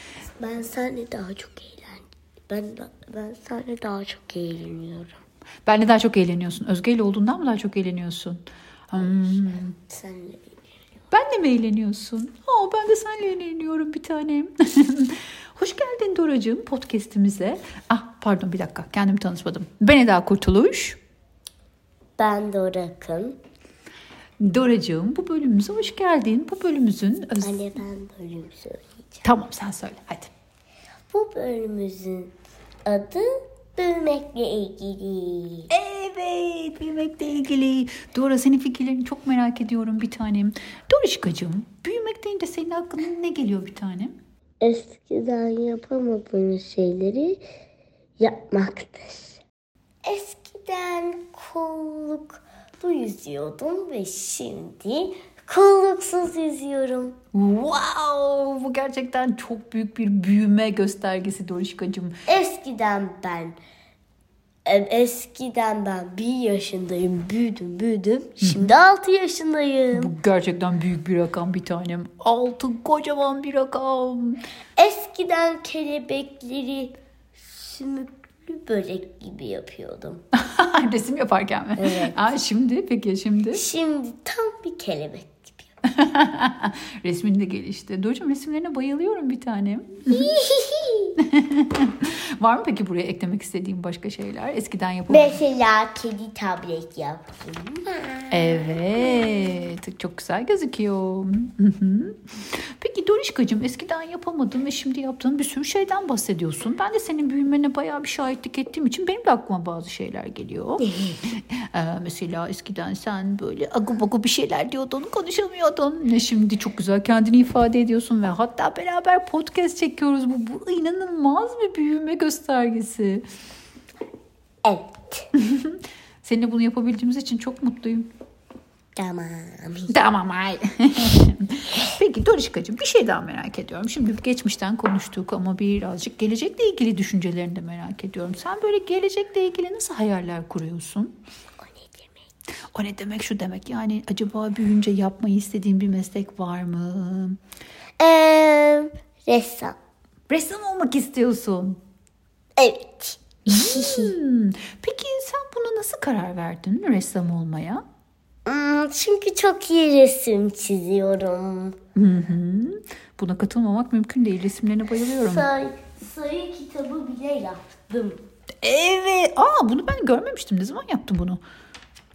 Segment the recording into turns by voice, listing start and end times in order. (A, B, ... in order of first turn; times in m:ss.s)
0:00.4-0:05.2 A
0:05.6-0:09.8 B
0:09.0-0:10.8 A
0:11.1-0:21.0 B
0:22.2-0:23.4 A
0:24.4-0:27.7 B
0:27.4-0:29.2 A
0:29.2-0:30.3 B
0:31.1-0:32.3 A
0:32.8-0:35.7 A
0:35.7-0:44.2 B
0:44.6-0:47.4 A
0:48.2-0:49.4 A
0:50.0-0:57.2 A
0:57.3-1:02.1 B
1:02.3-1:03.6 A
1:04.6-1:10.1 A
1:08.4-1:08.7 B
1:09.9-1:14.4 B
1:14.8-1:20.2 A
1:20.3-1:23.6 B
1:21.8-1:22.3 A
1:23.5-1:25.7 A
1:25.9-1:30.4 B
1:30.1-1:31.2 A
1:31.2-1:35.4 B
1:35.1-1:39.5 A
1:38.3-2:03.2 B
2:04.6-2:05.2 A
2:05.3-2:08.1 B
2:09.0-2:09.9 A
2:09.9-2:21.2 B
2:21.6-2:22.2 A
2:22.7-2:27.4 B
2:28.0-2:29.8 A
2:30.3-2:31.8 B
2:32.6-2:34.1 A
2:33.5-2:37.8 B
2:38.4-2:41.8 A
2:41.9-2:45.5 B
2:45.2-2:48.2 A
2:48.6-2:51.4 B